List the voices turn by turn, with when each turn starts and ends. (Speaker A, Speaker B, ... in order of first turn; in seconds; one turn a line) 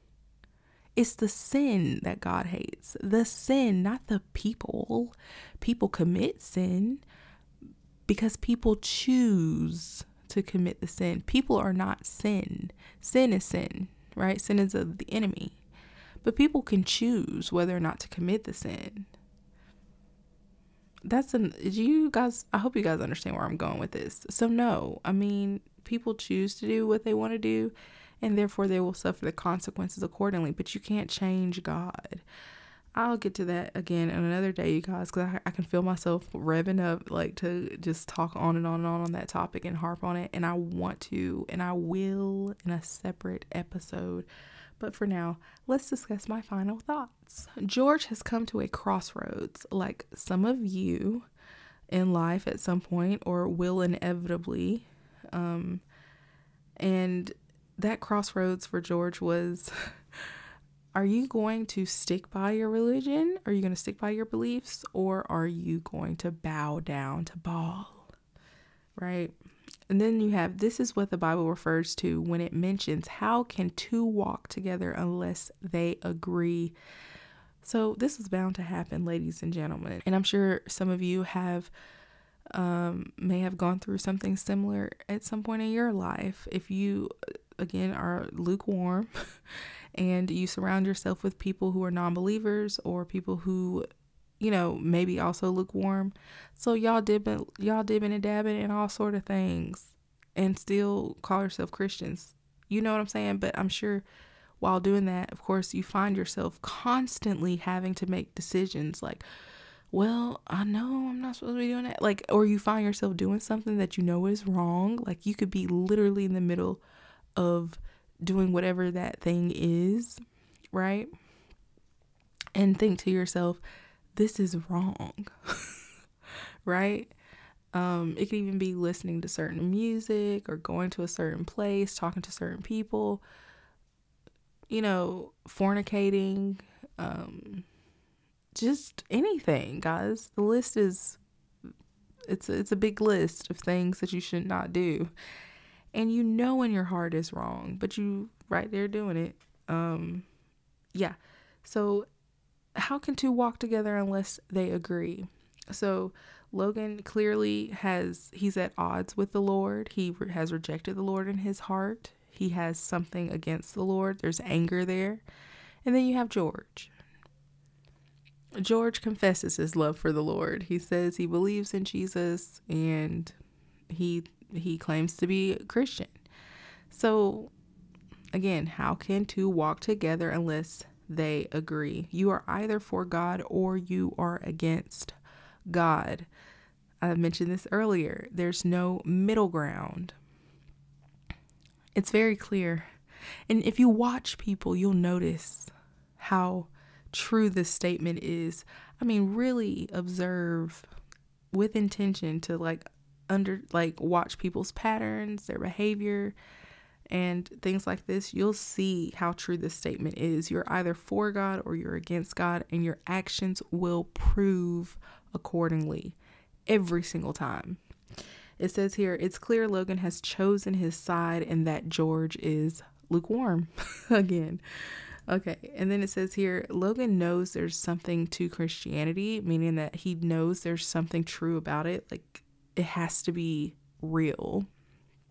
Speaker A: 1.0-7.0
Speaker A: 8.1-15.6
Speaker A: 16.2-19.1
Speaker A: 21.1-32.2
Speaker A: 33.0-44.3
Speaker A: 44.8-51.3
Speaker A: 51.9-55.8
Speaker A: 56.8-59.7
Speaker A: 61.0-68.1
Speaker A: 69.0-69.3
Speaker A: 69.9-76.8
Speaker A: 77.6-81.7
Speaker A: 82.5-89.1
Speaker A: 90.0-93.9
Speaker A: 94.4-104.0
Speaker A: 104.6-109.2
Speaker A: 109.9-116.8
Speaker A: 117.4-120.2
Speaker A: 120.7-121.1
Speaker A: 122.5-123.6
Speaker A: 124.2-125.8
Speaker A: 126.7-127.1
Speaker A: 127.7-133.2
Speaker A: 134.7-137.7
Speaker A: 138.6-141.2
Speaker A: 142.3-145.1
Speaker A: 145.9-150.3
Speaker A: 150.9-152.1
Speaker A: 152.8-165.2
Speaker A: 165.8-166.9
Speaker A: 168.6-173.3
Speaker A: 173.9-176.2
Speaker A: 176.9-177.5
Speaker A: 178.3-185.2
Speaker A: 185.7-186.3
Speaker A: 187.0-190.2
Speaker A: 191.9-192.9
Speaker A: 193.5-200.9
Speaker A: 201.5-206.4
Speaker A: 207.1-217.8
Speaker A: 218.6-224.6
Speaker A: 225.3-234.7